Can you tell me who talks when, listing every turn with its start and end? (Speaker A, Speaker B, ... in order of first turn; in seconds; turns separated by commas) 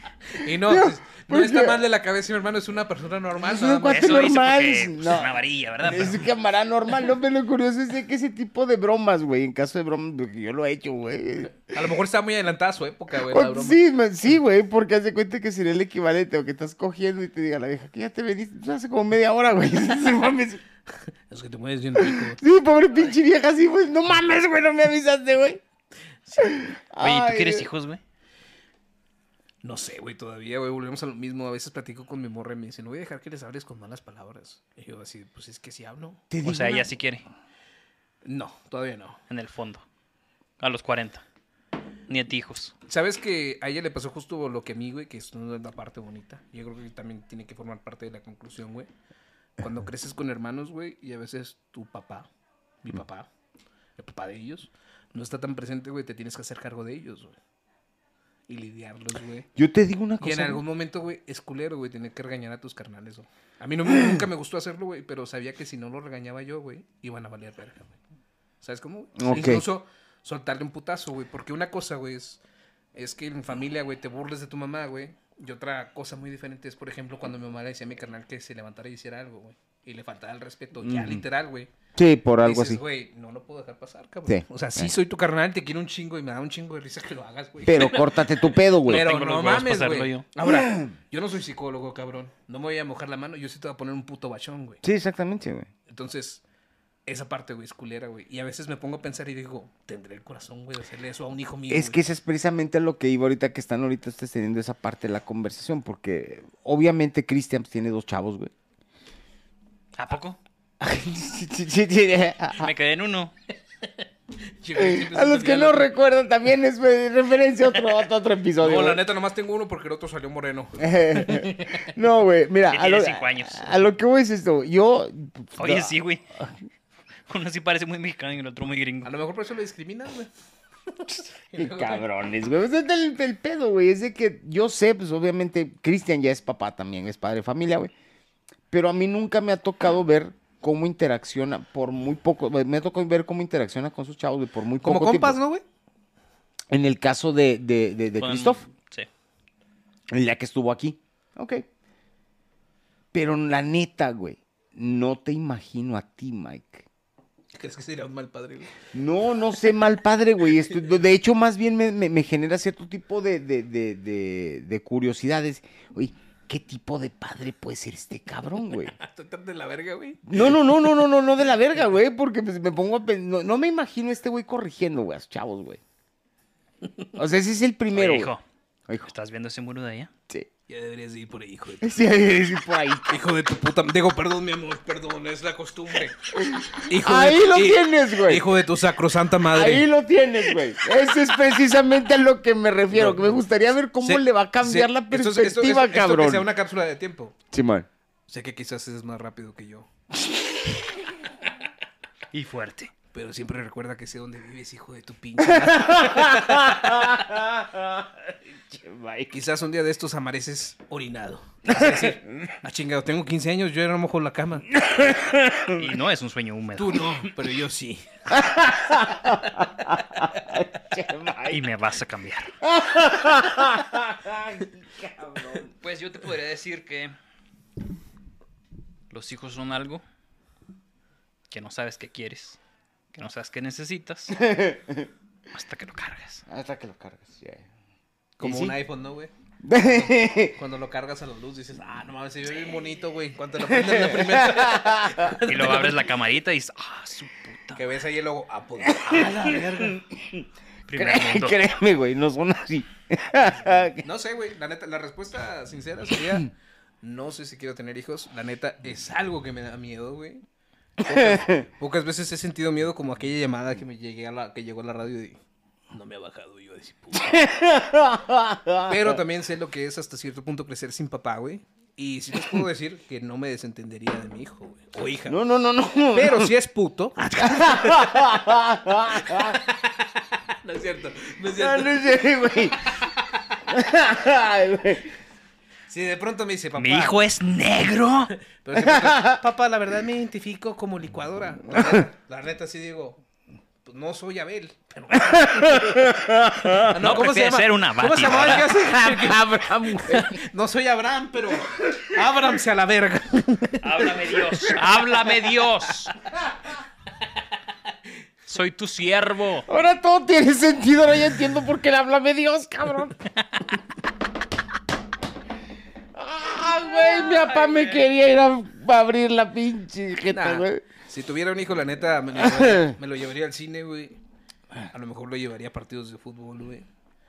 Speaker A: 0.3-4.3, Speaker B: 0.5-1.8, Speaker B: 3.4-11.7, Speaker C: 3.9-6.3, Speaker A: 11.7-13.8, Speaker B: 13.2-20.6, Speaker A: 21.3-22.4, Speaker B: 21.9-25.6, Speaker A: 26.2-26.7, Speaker B: 26.4-27.7, Speaker C: 27.0-28.0, Speaker A: 29.6-36.2, Speaker B: 36.3-36.9, Speaker C: 36.4-37.2, Speaker A: 38.2-39.2, Speaker C: 39.3-39.8, Speaker C: 40.6-41.2, Speaker C: 42.1-42.7, Speaker A: 42.9-48.9, Speaker A: 49.6-52.3, Speaker A: 52.8-53.3, Speaker A: 54.0-57.4, Speaker A: 58.5-59.5, Speaker B: 59.5-60.6, Speaker A: 60.2-68.0, Speaker A: 68.6-72.4, Speaker B: 69.2-69.6, Speaker A: 72.9-81.7, Speaker B: 80.8-81.2, Speaker B: 81.9-82.8, Speaker A: 82.4-94.8, Speaker B: 84.2-84.9, Speaker B: 87.7-89.1, Speaker C: 88.8-90.2, Speaker B: 90.4-90.9, Speaker B: 94.8-95.7, Speaker A: 95.9-96.4, Speaker A: 97.0-102.0, Speaker B: 101.7-108.5, Speaker C: 110.0-110.4, Speaker B: 110.8-112.7, Speaker C: 112.5-113.3, Speaker A: 113.8-115.9, Speaker B: 114.7-119.0, Speaker A: 118.6-121.9, Speaker B: 120.8-126.5, Speaker C: 122.7-123.8, Speaker C: 125.6-126.2, Speaker C: 127.3-129.1, Speaker A: 129.0-130.3, Speaker A: 130.9-132.0, Speaker B: 131.6-137.9, Speaker B: 138.7-145.4, Speaker A: 144.8-145.6, Speaker B: 146.7-148.6, Speaker C: 148.2-149.1, Speaker B: 150.1-151.7, Speaker B: 153.1-156.9, Speaker A: 157.5-158.7, Speaker B: 158.9-168.9, Speaker A: 168.9-170.8, Speaker B: 170.3-175.8, Speaker B: 177.2-178.3, Speaker C: 177.9-178.4, Speaker C: 179.0-180.1, Speaker A: 180.7-182.0, Speaker B: 181.8-183.2, Speaker A: 183.1-186.2, Speaker B: 186.3-188.5, Speaker A: 186.8-189.9, Speaker B: 189.5-196.5, Speaker A: 192.9-193.4, Speaker A: 194.0-197.3, Speaker B: 197.5-197.9, Speaker A: 198.3-199.9, Speaker C: 202.3-202.9, Speaker A: 203.1-207.2, Speaker B: 205.4-209.3, Speaker A: 209.3-214.7, Speaker B: 211.7-212.5, Speaker B: 214.7-215.9, Speaker C: 215.7-217.3, Speaker A: 216.8-218.1, Speaker B: 218.3-221.6, Speaker C: 221.5-222.5, Speaker B: 222.6-225.7, Speaker C: 225.8-227.1, Speaker C: 229.1-230.0, Speaker C: 231.5-232.6, Speaker C: 233.1-234.4, Speaker B: 234.3-235.1, Speaker C: 235.5-236.4, Speaker B: 236.5-237.6, Speaker A: 238.4-246.0, Speaker B: 238.4-238.8, Speaker B: 239.6-240.5, Speaker B: 243.7-245.3, Speaker C: 245.5-247.8, Speaker A: 247.8-250.0, Speaker B: 248.8-254.0, Speaker C: 250.9-251.6, Speaker A: 253.5-256.5, Speaker A: 257.0-260.4, Speaker B: 261.0-261.6, Speaker A: 261.0-265.4, Speaker A: 265.9-267.4, Speaker B: 267.1-269.2, Speaker A: 268.9-275.4, Speaker B: 275.3-276.5, Speaker A: 276.1-278.3, Speaker B: 277.3-279.6, Speaker A: 279.2-282.1, Speaker B: 281.5-282.9, Speaker A: 282.8-283.5, Speaker B: 283.7-285.1, Speaker A: 285.9-287.1, Speaker C: 286.7-288.3, Speaker A: 288.6-293.2, Speaker B: 288.8-289.4, Speaker B: 291.7-292.0, Speaker A: 293.8-296.1, Speaker B: 295.1-297.2, Speaker A: 296.8-304.8, Speaker C: 296.9-298.9, Speaker B: 298.8-300.4, Speaker B: 301.8-302.1, Speaker C: 303.8-306.1, Speaker C: 308.5-309.7, Speaker B: 309.7-313.1, Speaker B: 316.1-320.8, Speaker C: 317.1-318.0, Speaker A: 320.3-324.2, Speaker B: 322.4-322.9, Speaker A: 324.9-326.9